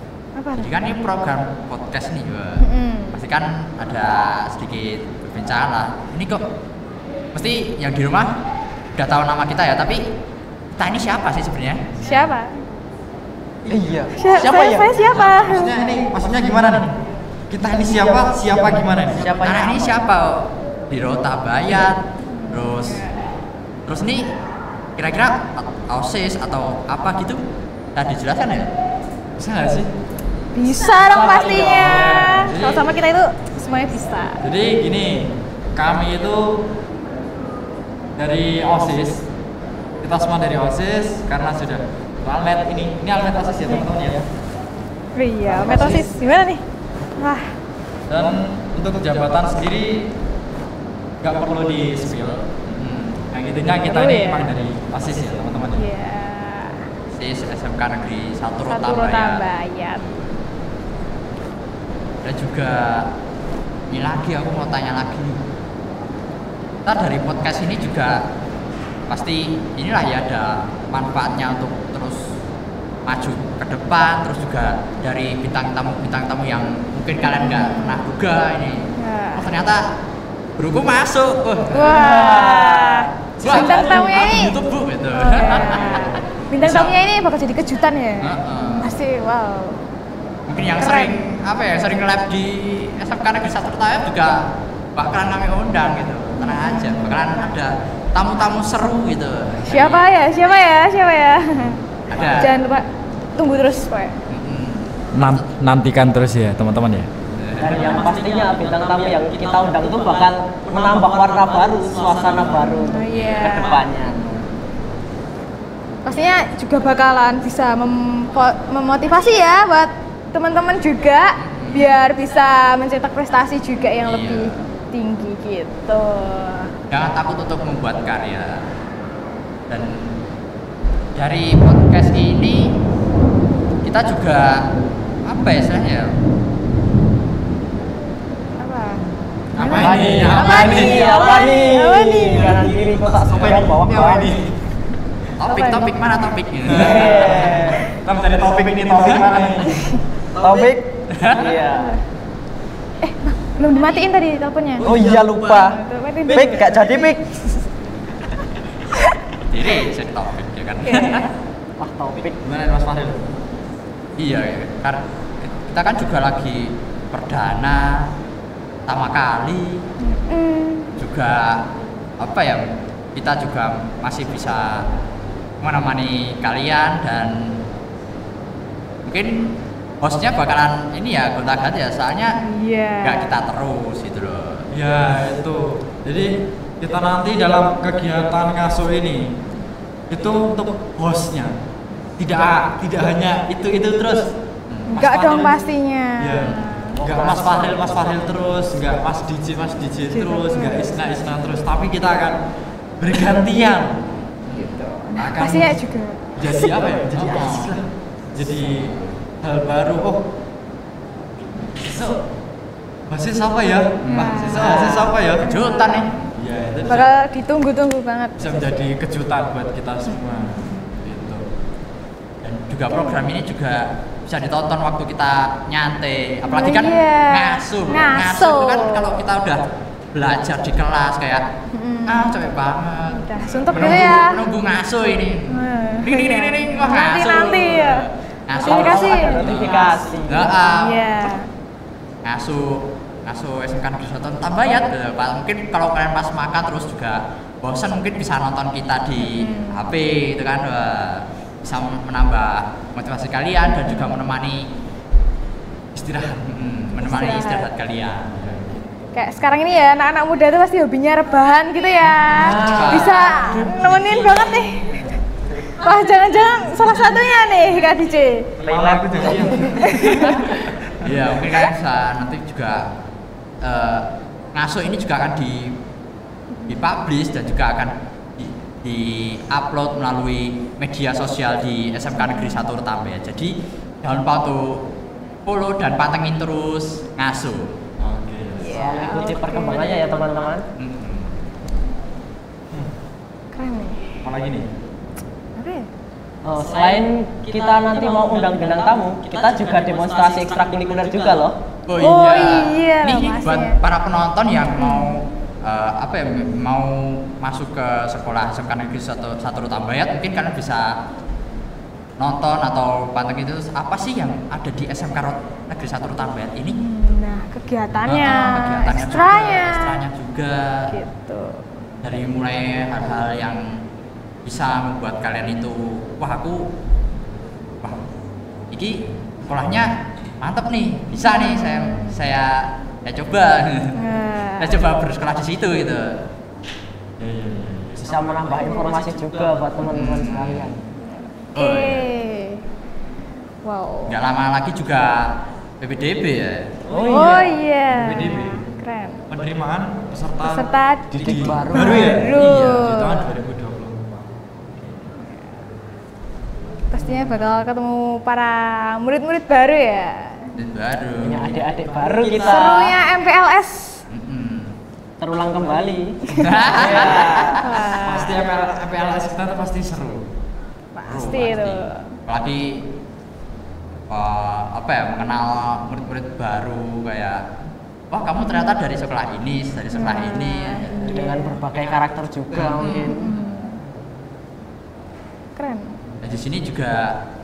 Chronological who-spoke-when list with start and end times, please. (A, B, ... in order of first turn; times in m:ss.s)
0:00.4-0:00.7 A
0:00.5-0:06.5 B
0:02.6-0:03.2 A
0:07.3-0:08.4 B
0:09.0-0:10.1 B
0:10.7-0:12.0 B
0:12.0-0:12.6 A
0:13.7-0:14.9 C
0:14.1-0:16.1 A
0:14.2-0:15.5 B
0:15.2-0:16.9 D
0:17.5-0:19.3 D
0:19.2-0:20.0 C
0:19.4-0:23.0 B
0:22.4-0:23.2 A
0:23.9-0:24.3 B
0:25.0-0:27.4 B
0:28.0-0:28.7 B
0:29.4-0:29.9 D
0:30.5-0:34.4 A
0:31.0-0:31.9 C
0:31.6-0:32.9 D
0:34.4-0:36.7 D
0:38.2-0:39.3 D
0:40.0-0:44.3 D
0:45.2-0:46.6 A
0:45.5-0:46.1 D
0:47.2-0:47.5 A
0:48.1-0:50.2 D
0:51.2-0:52.5 D
0:52.6-0:53.2 B
0:53.3-0:55.9 D
0:53.7-0:54.5 A
0:55.7-0:56.9 A
0:57.1-0:59.5 B
0:58.6-1:00.2 A
1:02.2-1:03.1 B
1:03.9-1:05.4 B
1:06.9-1:08.2 B
1:09.1-1:12.4 B
1:13.1-1:20.0 B
1:17.2-1:18.0 A
1:19.0-1:19.5 A
1:20.6-1:22.1 B
1:21.7-1:24.5 A
1:21.9-1:24.0 C
1:23.4-1:27.0 B
1:25.1-1:29.9 A
1:28.2-1:29.0 B
1:30.5-1:40.1 B
1:30.8-1:31.4 A
1:36.4-1:37.5 A
1:39.6-1:44.2 A
1:42.1-1:42.5 B
1:44.3-1:45.4 B
1:45.1-1:47.1 D
1:47.4-1:48.0 B
1:47.6-1:54.2 C
1:47.9-1:48.2 A
1:52.6-1:54.5 A
1:53.1-1:53.6 B
1:56.0-2:06.7 A
2:01.4-2:01.9 B
2:04.0-2:04.5 B
2:06.9-2:08.6 B
2:09.7-2:10.2 B
2:11.1-2:12.8 B
2:13.8-2:14.7 B
2:15.3-2:16.1 B
2:18.6-2:22.8 A
2:19.6-2:21.1 D
2:19.7-2:24.4 C
2:23.3-2:24.5 D
2:25.4-2:27.5 B
2:25.5-2:26.2 A
2:26.6-2:30.0 D
2:26.7-2:27.8 C
2:30.4-2:32.0 C
2:31.1-2:31.4 B
2:33.0-2:34.9 A
2:34.8-2:37.4 C
2:35.5-2:37.2 A
2:39.4-2:41.3 B
2:40.9-2:41.3 A
2:41.8-2:42.4 C
2:42.4-2:43.4 D
2:44.2-2:48.1 B
2:48.9-2:49.9 B
2:50.0-2:50.9 A
2:51.0-2:51.6 B
2:52.2-2:54.8 B
2:55.6-2:57.6 B
2:59.1-3:02.4 B
3:02.4-3:03.3 A
3:03.0-3:04.7 B
3:04.7-3:09.4 D
3:10.1-3:11.6 D
3:12.2-3:14.4 D
3:14.7-3:15.0 B
3:14.9-3:17.0 A
3:15.0-3:15.7 D
3:16.2-3:22.4 D
3:17.0-3:17.7 C
3:17.3-3:17.6 B
3:20.1-3:20.8 A
3:23.0-3:24.0 D
3:24.5-3:27.0 A
3:25.2-3:25.8 D
3:26.4-3:30.3 D
3:27.2-3:27.8 B
3:31.8-3:32.2 D
3:33.1-3:35.5 D
3:34.0-3:36.1 B
3:34.0-3:36.1 A
3:36.4-3:37.2 D
3:36.9-3:38.6 A
3:38.4-3:41.4 D
3:40.1-3:40.9 A
3:42.4-3:51.5 B
3:42.9-3:43.3 A
3:46.5-3:49.2 A
3:51.7-3:52.4 A
3:52.1-4:01.3 B
3:53.1-3:54.4 A
3:55.5-3:58.1 A
3:58.6-4:00.5 C
3:58.6-3:59.6 A
4:00.5-4:01.5 A
4:02.2-4:14.7 B
4:09.2-4:09.8 A
4:13.7-4:14.2 A
4:15.9-4:16.5 D
4:16.5-4:18.4 B
4:17.0-4:17.7 A
4:18.3-4:19.1 D
4:19.1-4:25.1 A
4:22.4-4:23.1 C
4:22.6-4:24.6 B
4:25.7-4:28.6 A
4:28.6-4:31.2 D
4:28.8-4:29.3 C
4:29.4-4:30.5 A
4:31.0-4:32.9 B
4:33.6-4:35.8 B
4:36.7-4:44.8 B
4:42.2-4:42.6 A
4:45.4-4:47.8 B
4:48.0-4:48.8 D
4:48.6-4:50.0 A
4:48.7-4:50.6 C
4:50.8-4:51.3 B
4:53.5-4:54.2 A
4:54.2-4:54.7 D
4:55.6-4:55.9 A
4:56.4-5:01.6 C
5:01.9-5:11.0 B
5:02.0-5:03.8 A
5:04.7-5:05.2 A
5:12.2-5:16.8 B
5:16.7-5:20.0 A
5:18.0-5:20.9 B
5:20.9-5:21.6 A
5:22.0-5:23.8 B
5:24.4-5:26.7 B
5:28.7-5:34.0 B
5:31.3-5:32.2 A
5:34.0-5:34.8 A
5:34.6-5:36.2 B
5:37.2-5:38.4 D
5:38.0-5:40.8 C
5:38.6-5:38.9 A
5:39.9-5:40.7 B
5:41.6-5:42.1 B
5:41.6-5:42.6 A
5:43.6-5:44.2 A
5:44.1-5:46.8 B
5:46.9-5:47.6 C
5:47.0-5:49.3 A
5:47.9-5:48.7 D
5:49.3-5:54.4 D
5:50.4-5:53.3 A
5:51.2-5:52.2 C
5:52.4-5:52.8 B
5:56.9-6:00.5 A
6:00.6-6:02.6 B
6:01.2-6:03.0 C
6:02.4-6:04.0 A
6:04.1-6:04.7 B
6:05.2-6:07.6 C
6:06.3-6:07.8 B
6:06.4-6:08.5 A
6:08.0-6:10.2 D
6:11.0-6:12.0 A
6:11.1-6:12.8 B
6:14.1-6:17.4 B
6:18.1-6:21.1 B
6:18.4-6:18.7 A
6:19.9-6:21.6 A
6:21.0-6:23.3 C
6:22.5-6:23.0 B
6:22.8-6:23.8 A
6:25.6-6:26.0 A
6:26.2-6:27.2 B